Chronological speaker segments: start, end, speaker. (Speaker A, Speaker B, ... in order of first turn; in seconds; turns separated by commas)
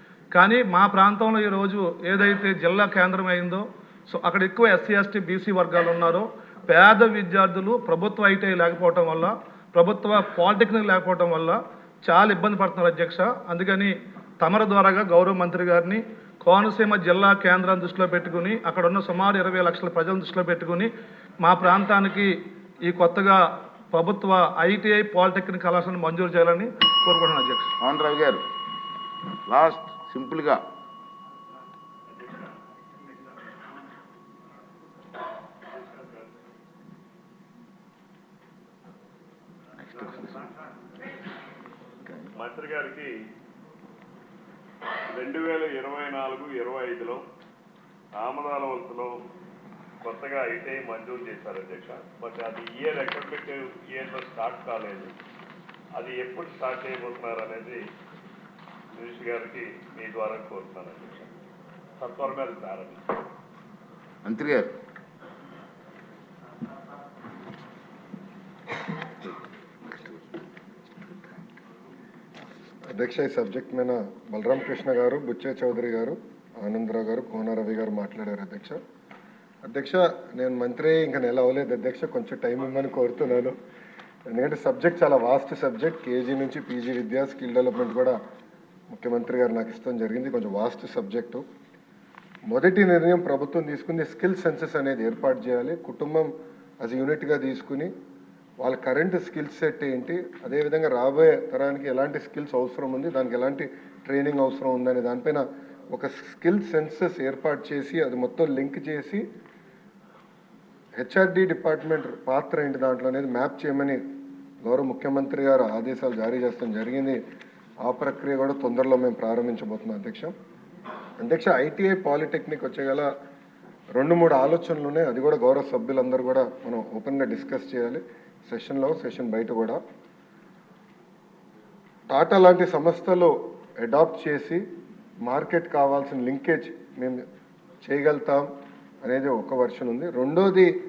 Speaker A: 0.3-20.9, Speaker A: 21.4-22.3, Speaker A: 22.9-23.4, Speaker A: 23.9-27.7, Speaker B: 27.8-28.4, Speaker B: 29.5-30.6, Speaker C: 35.8-36.2, Speaker B: 39.8-40.5, Speaker C: 42.4-43.1, Speaker C: 45.1-47.2, Speaker C: 48.2-49.2, Speaker C: 50.0-55.1, Speaker C: 56.0-57.8, Speaker C: 59.0-61.3, Speaker C: 62.0-63.0, Speaker B: 64.2-64.7, Speaker D: 73.0-78.8, Speaker D: 79.7-83.6, Speaker D: 84.3-88.2, Speaker D: 88.9-91.4, Speaker D: 92.5-97.9, Speaker D: 98.6-109.2, Speaker D: 111.0-114.0, Speaker D: 114.7-117.2, Speaker D: 117.8-120.3, Speaker D: 121.2-123.1, Speaker D: 124.0-129.8, Speaker D: 132.1-134.6, Speaker D: 135.2-137.2, Speaker D: 137.8-138.5, Speaker D: 139.1-140.7